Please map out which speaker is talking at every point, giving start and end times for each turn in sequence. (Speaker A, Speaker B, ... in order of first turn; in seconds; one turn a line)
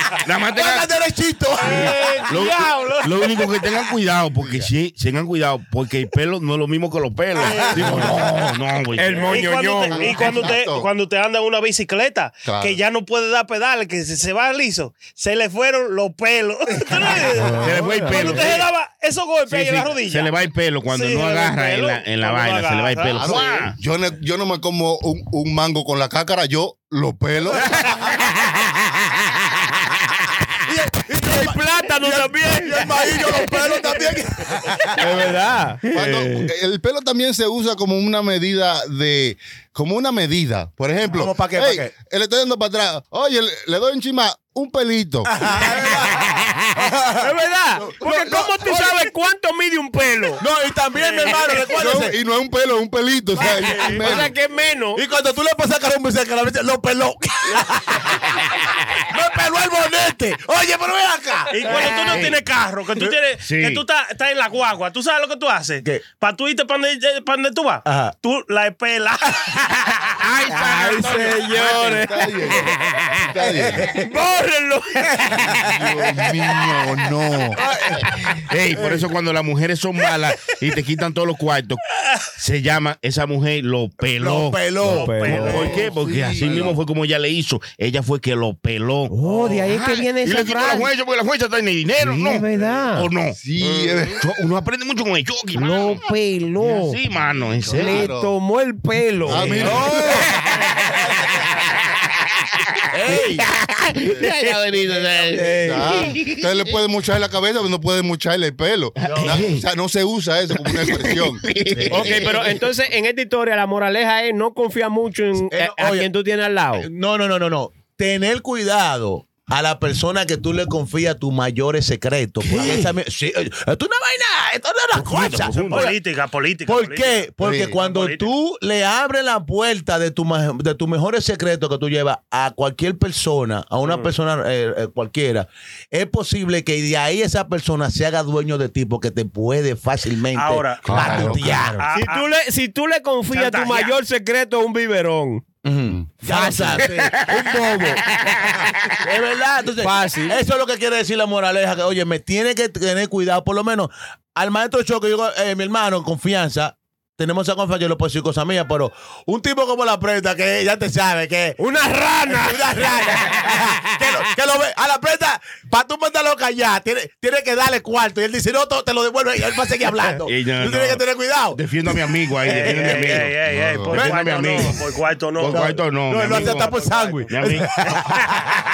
Speaker A: 0.2-1.0
Speaker B: 0.5-2.2
Speaker C: 1.6-3.5
Speaker A: 1.6-9.4
Speaker D: 4.4-4.7
Speaker B: 7.4-8.3
Speaker C: 7.4-8.1
Speaker E: 9.0-10.1
Speaker C: 9.2-20.3
Speaker D: 9.9-10.9
Speaker D: 12.4-12.8
Speaker A: 17.6-18.7
Speaker E: 17.8-18.1
Speaker A: 19.5-23.8
Speaker C: 20.9-23.6
Speaker D: 23.2-27.7
Speaker B: 30.6-35.2
Speaker E: 31.2-33.9
Speaker E: 35.0-36.4
Speaker D: 35.9-45.5
Speaker B: 41.1-41.9
Speaker B: 45.3-49.0
Speaker E: 47.2-50.4
Speaker B: 50.4-52.1
Speaker C: 51.0-51.5
Speaker D: 51.7-54.3
Speaker B: 53.4-54.2
Speaker E: 53.9-55.0
Speaker B: 55.0-62.4
Speaker C: 61.5-69.8
Speaker A: 63.4-63.8
Speaker B: 67.9-68.1
Speaker A: 70.2-72.1
Speaker E: 70.5-73.2
Speaker D: 72.0-73.9
Speaker B: 73.7-74.0
Speaker E: 74.0-75.3
Speaker B: 75.2-75.7
Speaker D: 75.6-77.6
Speaker B: 77.6-78.1
Speaker A: 78.4-81.8
Speaker B: 78.8-79.0
Speaker A: 82.3-93.4
Speaker B: 84.2-85.9
Speaker E: 85.0-85.6
Speaker C: 85.1-85.7
Speaker D: 85.3-86.8
Speaker E: 89.1-90.9
Speaker E: 92.1-93.1
Speaker D: 93.3-94.2
Speaker A: 94.2-96.0
Speaker E: 95.6-97.0
Speaker A: 96.6-98.1
Speaker D: 97.6-98.3
Speaker E: 97.7-99.8
Speaker D: 99.3-100.2
Speaker A: 99.3-100.7
Speaker B: 99.4-100.7
Speaker A: 102.6-106.5
Speaker B: 102.9-103.5
Speaker B: 104.9-105.4
Speaker E: 105.3-106.1
Speaker D: 105.6-111.5
Speaker A: 109.0-109.6
Speaker B: 109.1-109.5
Speaker A: 110.6-112.5
Speaker B: 111.7-112.2
Speaker E: 111.9-116.9
Speaker B: 115.4-116.1
Speaker B: 116.8-126.0
Speaker A: 122.5-122.9
Speaker A: 125.0-125.9
Speaker C: 125.5-128.3
Speaker B: 126.7-141.8
Speaker D: 127.4-127.8
Speaker C: 133.8-134.1
Speaker C: 140.3-142.3
Speaker D: 140.8-141.7
Speaker E: 141.8-145.4
Speaker C: 143.3-143.9
Speaker B: 145.7-161.6
Speaker E: 146.2-146.9
Speaker A: 148.3-148.5
Speaker E: 149.8-150.4
Speaker E: 161.6-162.9
Speaker B: 162.3-173.2
Speaker A: 170.2-171.0
Speaker A: 171.5-173.4
Speaker C: 172.5-175.6
Speaker D: 173.5-173.9
Speaker A: 173.9-174.8
Speaker B: 173.9-174.7
Speaker A: 175.4-176.8
Speaker B: 175.5-178.5
Speaker C: 176.2-177.3
Speaker A: 177.3-177.9